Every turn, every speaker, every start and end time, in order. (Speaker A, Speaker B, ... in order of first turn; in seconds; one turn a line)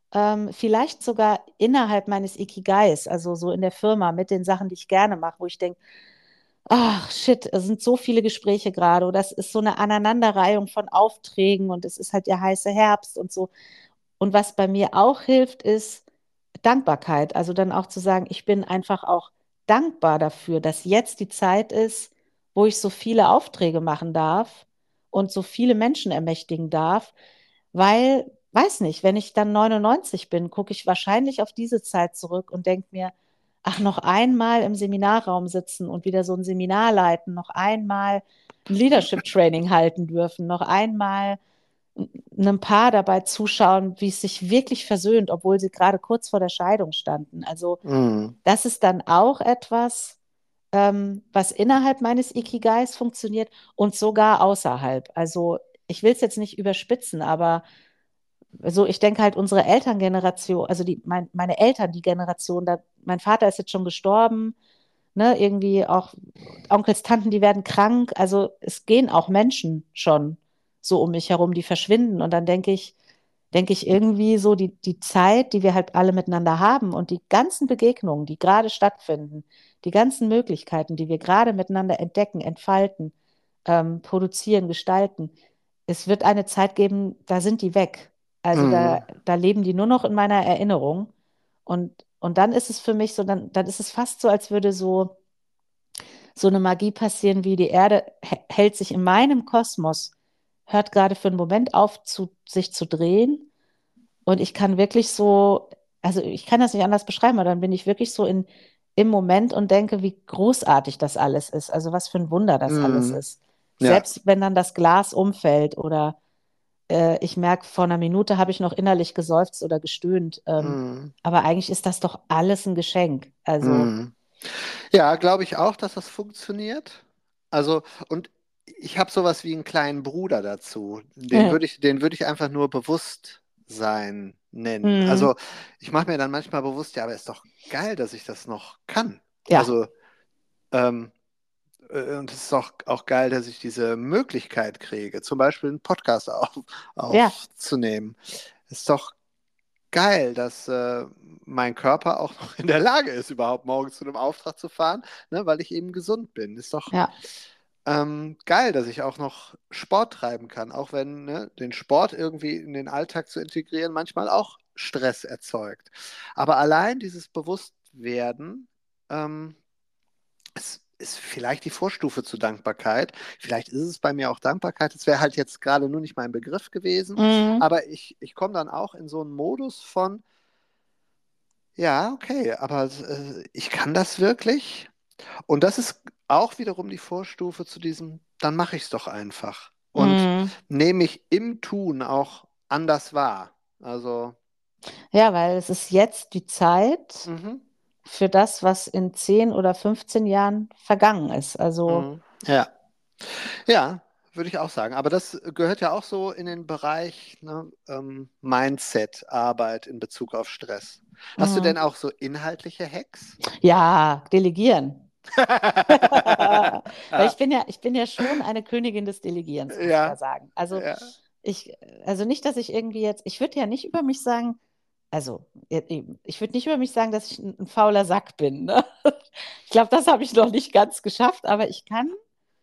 Speaker A: 0.1-5.8
Speaker A: 6.7-13.5
Speaker A: 14.2-16.0
Speaker A: 16.6-27.1
Speaker A: 27.7-33.1
Speaker A: 33.6-41.4
Speaker A: 42.0-47.8
Speaker B: 47.8-48.4
Speaker A: 48.4-50.2
Speaker A: 50.7-57.6
Speaker A: 58.6-64.5
Speaker A: 65.2-66.2
Speaker A: 66.7-72.9
Speaker A: 73.5-83.1
Speaker A: 83.7-85.3
Speaker A: 85.9-91.1
Speaker B: 88.5-89.0
Speaker A: 91.7-95.2
Speaker A: 96.3-100.1
Speaker A: 100.7-103.5
Speaker A: 104.3-116.2
Speaker B: 112.7-113.2
Speaker A: 116.9-123.9
Speaker B: 120.6-121.1
Speaker B: 123.6-139.9
Speaker A: 131.3-131.6
Speaker A: 134.8-135.3
Speaker A: 139.5-139.7
Speaker B: 140.7-141.1
Speaker B: 141.9-149.2
Speaker A: 147.1-147.3
Speaker B: 149.9-157.0
Speaker B: 157.9-169.6
Speaker B: 170.6-180.2
Speaker A: 177.2-177.7
Speaker B: 181.8-184.9
Speaker B: 185.5-194.4
Speaker A: 190.0-190.6
Speaker A: 195.1-197.3
Speaker B: 197.3-197.6
Speaker A: 198.1-202.1
Speaker B: 201.9-202.7
Speaker B: 203.2-213.4
Speaker A: 211.4-211.8
Speaker A: 213.6-215.1
Speaker B: 215.4-217.3
Speaker A: 215.9-220.9
Speaker B: 219.8-220.2
Speaker B: 220.7-221.1
Speaker A: 221.4-224.6
Speaker A: 225.1-229.2
Speaker A: 229.7-232.2